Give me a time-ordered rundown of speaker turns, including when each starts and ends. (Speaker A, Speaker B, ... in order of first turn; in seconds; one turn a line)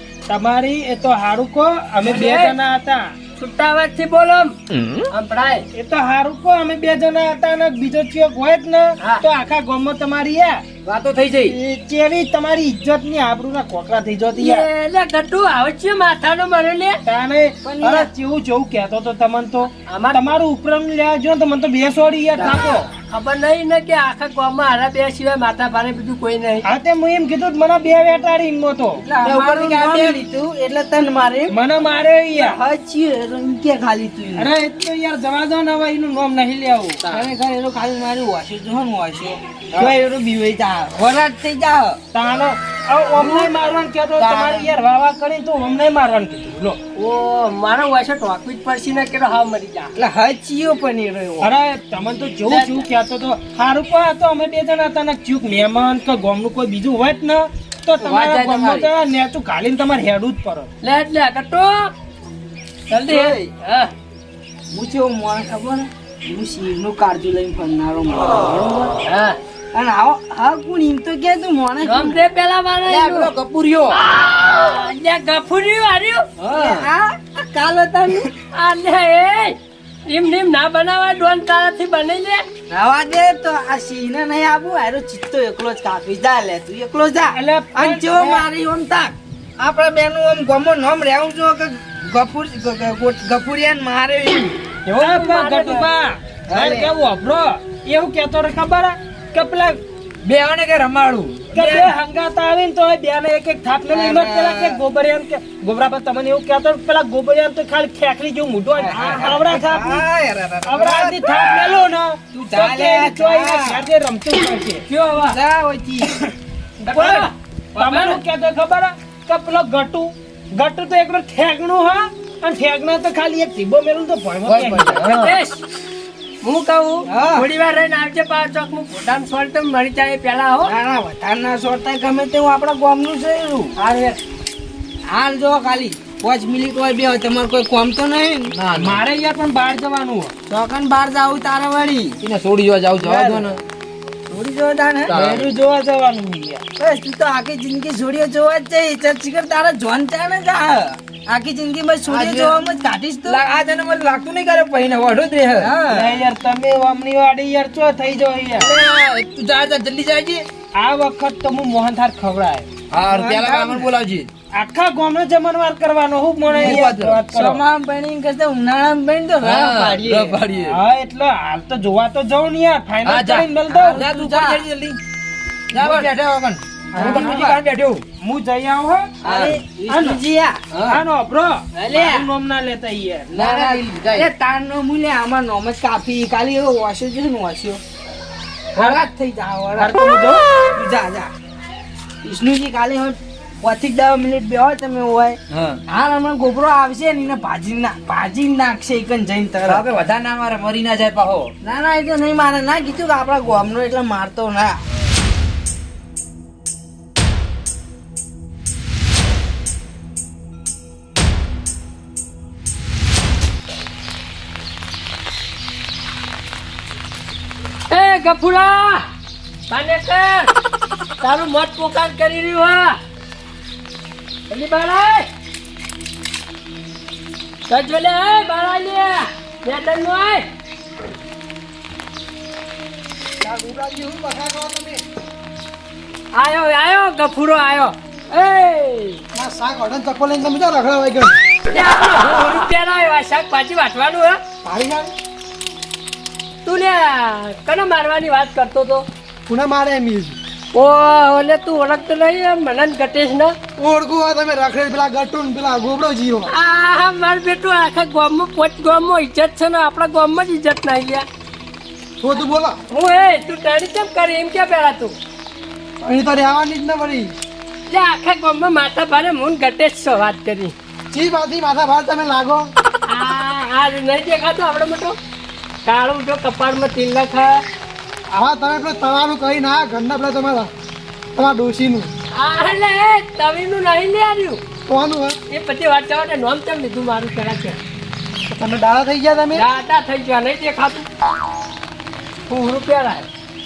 Speaker A: 0.3-3.1
Speaker B: 2.0-2.5
Speaker B: 3.4-4.6
Speaker B: 5.1-5.7
Speaker A: 5.7-10.6
Speaker C: 10.8-11.6
Speaker A: 11.4-14.7
Speaker B: 14.4-17.0
Speaker A: 17.1-22.9
Speaker D: 17.6-18.1
Speaker B: 19.9-20.3
Speaker B: 23.1-26.7
Speaker A: 26.6-29.0
Speaker D: 29.0-31.6
Speaker C: 29.2-30.2
Speaker A: 31.5-32.6
Speaker D: 32.3-34.5
Speaker A: 34.4-37.0
Speaker D: 37.1-42.0
Speaker A: 42.1-46.8
Speaker D: 43.2-43.5
Speaker D: 44.2-44.7
Speaker B: 47.0-49.9
Speaker D: 50.0-51.5
Speaker A: 51.4-60.7
Speaker B: 52.5-52.8
Speaker B: 58.0-58.9
Speaker B: 60.8-61.9
Speaker B: 62.9-63.9
Speaker D: 63.0-63.5
Speaker D: 64.7-68.9
Speaker B: 69.1-69.4
Speaker D: 69.7-72.2
Speaker B: 71.8-73.3
Speaker C: 72.8-74.0
Speaker B: 74.0-76.3
Speaker C: 76.4-76.8
Speaker D: 76.5-78.3
Speaker B: 78.5-79.6
Speaker B: 80.1-82.4
Speaker D: 82.7-94.6
Speaker A: 87.3-88.5
Speaker A: 94.9-99.8
Speaker B: 94.9-95.9
Speaker D: 96.5-96.9
Speaker C: 100.2-101.9
Speaker A: 101.5-110.0
Speaker D: 103.9-104.8
Speaker D: 108.8-111.8
Speaker B: 108.9-109.3
Speaker A: 110.7-114.8
Speaker D: 112.3-113.9
Speaker B: 114.9-115.4
Speaker D: 115.3-116.2
Speaker B: 116.8-118.2
Speaker A: 116.9-125.4
Speaker C: 124.5-125.2
Speaker B: 125.1-125.6
Speaker B: 126.4-130.7
Speaker D: 127.1-127.5
Speaker D: 130.6-133.8
Speaker A: 133.8-134.2
Speaker D: 135.1-138.6
Speaker C: 138.5-139.0
Speaker A: 138.8-140.3
Speaker D: 140.5-142.2
Speaker C: 142.2-143.6
Speaker A: 143.0-143.5
Speaker D: 144.3-145.2
Speaker C: 145.1-145.5
Speaker A: 145.1-146.6
Speaker D: 146.8-153.4
Speaker C: 152.1-152.6
Speaker C: 153.3-155.7
Speaker D: 155.6-156.2
Speaker A: 155.9-158.7
Speaker C: 158.6-160.5
Speaker A: 160.8-162.7
Speaker C: 162.9-164.3
Speaker D: 163.1-163.9
Speaker A: 164.5-167.6
Speaker D: 166.5-170.4
Speaker C: 166.6-167.2
Speaker C: 169.4-170.8
Speaker A: 170.6-174.1
Speaker C: 173.1-175.0
Speaker D: 173.7-174.7
Speaker C: 175.7-178.0
Speaker A: 175.8-176.1
Speaker A: 176.9-177.5
Speaker D: 177.0-177.6
Speaker A: 178.2-179.2
Speaker C: 179.2-179.6
Speaker D: 179.2-180.6
Speaker A: 179.9-180.2
Speaker C: 180.7-181.0
Speaker A: 180.9-183.3
Speaker D: 181.8-182.3
Speaker C: 183.3-184.3
Speaker D: 183.3-187.8
Speaker D: 188.8-190.0
Speaker A: 189.8-190.4
Speaker D: 190.8-191.3
Speaker D: 192.2-199.9
Speaker C: 195.5-195.8
Speaker C: 199.7-201.5
Speaker D: 201.6-204.8
Speaker B: 217.9-219.1
Speaker B: 219.7-220.5
Speaker B: 221.2-223.0
Speaker B: 224.5-225.3
Speaker B: 227.7-230.5
Speaker E: 233.4-235.0
Speaker B: 236.3-239.2
Speaker E: 239.3-241.4
Speaker B: 241.7-244.4
Speaker E: 244.6-245.1
Speaker B: 246.7-249.1
Speaker E: 249.5-250.4
Speaker B: 250.7-253.5
Speaker E: 253.8-256.5
Speaker B: 256.5-261.3
Speaker E: 262.2-262.8
Speaker B: 262.9-265.2
Speaker E: 266.0-267.3
Speaker B: 267.9-270.7
Speaker E: 271.1-272.7
Speaker B: 273.1-275.2
Speaker B: 275.9-277.6
Speaker E: 278.3-280.7
Speaker E: 281.4-282.1
Speaker B: 282.3-284.6
Speaker E: 284.9-285.4
Speaker B: 285.5-287.8
Speaker E: 288.5-289.6
Speaker B: 289.5-291.1
Speaker B: 292.5-293.3